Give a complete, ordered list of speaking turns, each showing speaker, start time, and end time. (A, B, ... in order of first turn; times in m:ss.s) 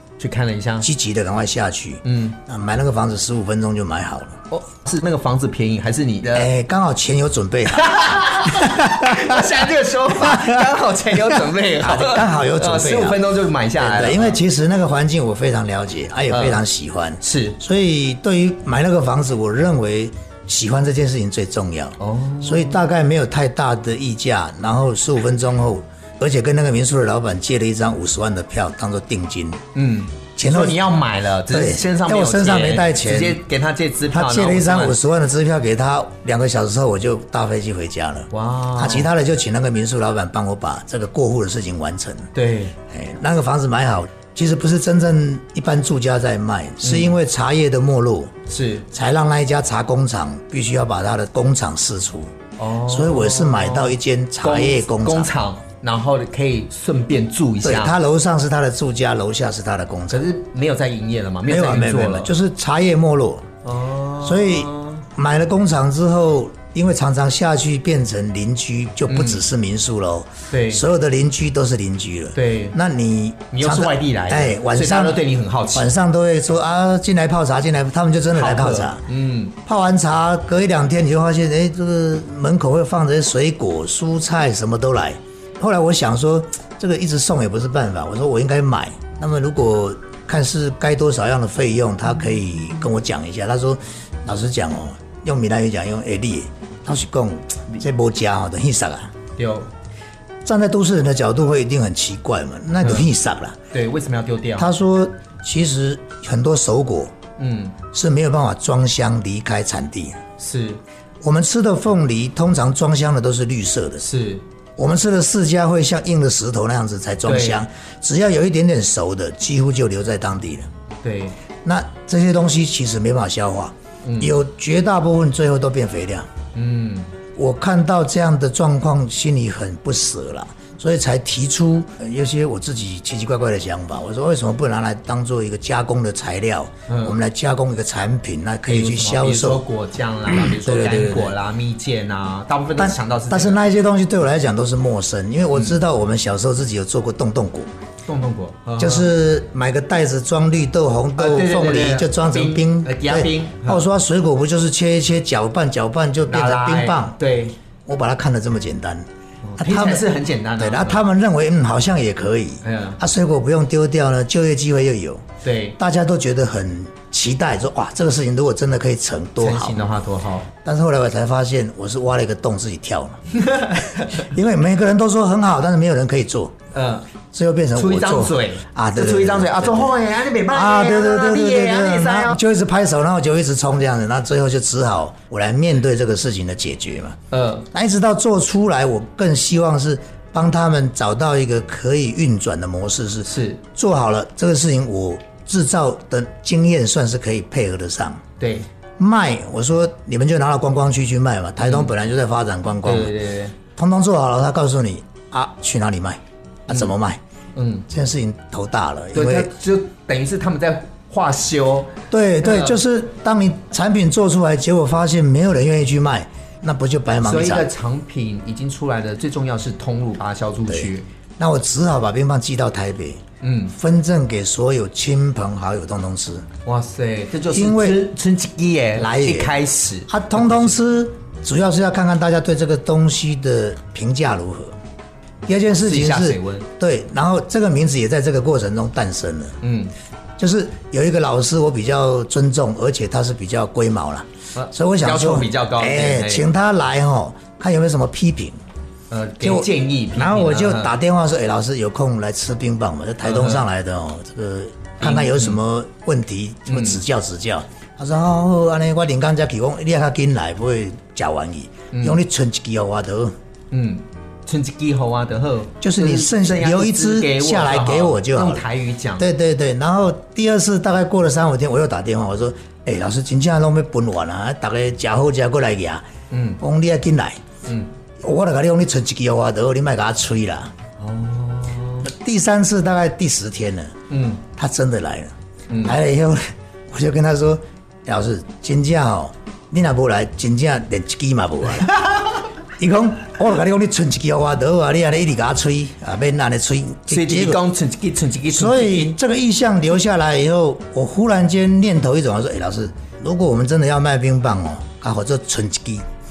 0:00.2-0:00.9 A
0:00.8-0:04.4 B
0:02.0-0:02.4 A
0:04.5-0:06.5 A
0:06.3-0:09.6 B
0:07.7-0:14.4 A
0:10.1-0:13.2 B
0:13.8-0:29.6 B
0:16.3-0:16.6 A
0:17.2-0:17.6 A
0:22.0-0:22.8 A
0:29.8-0:35.0 A
0:30.4-0:30.8 B
0:31.5-0:33.4 B
0:34.1-0:42.3 B
0:38.3-0:39.1 A
0:42.3-0:42.8 A
0:42.9-0:48.3 B
0:46.8-0:47.2 A
0:48.5-0:48.9 A
0:48.9-0:52.3 B
0:52.6-0:58.0 A
0:52.9-0:55.3 B
0:57.6-1:00.2 B
1:00.1-1:02.3 A
1:01.5-1:03.5 B
1:03.6-1:05.0 A
1:04.2-1:15.2 B
1:09.1-1:09.4 A
1:10.5-1:10.8 A
1:12.3-1:12.8 A
1:13.5-1:15.9 A
1:15.7-1:19.0 B
1:18.3-1:19.6 A
1:19.6-1:39.1 B
1:39.4-1:39.7 A
1:40.4-1:43.6 B
1:43.7-1:44.7 A
1:44.6-1:47.2 B
1:47.4-1:47.8 A
1:47.9-1:50.2 B
1:50.4-1:50.8 A
1:51.2-1:54.1 B
1:54.0-1:54.4 A
1:54.8-2:00.7 B
1:57.3-1:57.6 A
2:01.0-2:01.4 A
2:01.6-2:06.3 B
2:04.0-2:04.3 A
2:06.5-2:07.1 A
2:07.4-2:19.6 B
2:16.9-2:17.2 A
2:18.7-2:23.6 A
2:20.3-2:21.3 B
2:22.8-2:27.7 B
2:28.1-2:29.1 A
2:28.8-2:37.2 B
2:31.2-2:33.9 A
2:36.3-2:37.6 A
2:37.9-2:39.1 B
2:39.4-2:41.1 A
2:39.6-2:40.1 B
2:40.6-2:45.2 B
2:42.6-2:43.0 A
2:45.4-2:45.8 A
2:45.8-2:49.9 B
2:49.4-2:50.5 A
2:50.6-2:53.2 B
2:53.3-2:54.3 A
2:54.1-2:56.6 B
2:56.7-2:57.1 A
2:57.3-3:07.2 B
2:57.8-3:02.4 A
3:07.3-3:07.7 A
3:07.7-3:18.2 B
3:13.2-3:13.6 A
3:18.4-3:18.7 A
3:19.0-3:23.2 B
3:21.6-3:21.9 A
3:22.8-3:23.6 A
3:23.8-3:27.2 B
3:27.6-3:27.9 A
3:27.9-3:29.5 B
3:29.1-3:32.8 A
3:32.1-3:37.7 B
3:37.2-3:41.1 A
3:40.7-3:46.5 B
3:43.4-3:43.7 A
3:46.7-3:50.8 A
3:47.5-3:48.1 B
3:49.0-3:49.5 B
3:50.1-3:54.8 B
3:55.5-3:59.6 B
3:55.8-3:56.7 A
3:59.6-3:59.9 A
4:00.4-4:08.6 B
4:04.6-4:06.4 A
4:09.1-4:10.9 A
4:09.4-4:23.3 B
4:13.2-4:13.6 A
4:15.0-4:15.6 A
4:16.7-4:17.0 A
4:21.9-4:22.2 A
4:23.7-4:29.3 A
4:25.8-4:28.7 B
4:29.2-4:36.0 B
4:36.3-4:36.6 A
4:36.6-4:37.4 B
4:38.2-4:40.7 B
4:41.0-4:42.1 A
4:42.0-4:43.9 B
4:44.1-4:44.4 A
4:44.5-4:52.0 B
4:45.7-4:46.0 A
4:52.0-4:52.4 A
4:52.8-4:57.6 B
4:57.1-4:59.2 A
4:58.5-5:06.0 B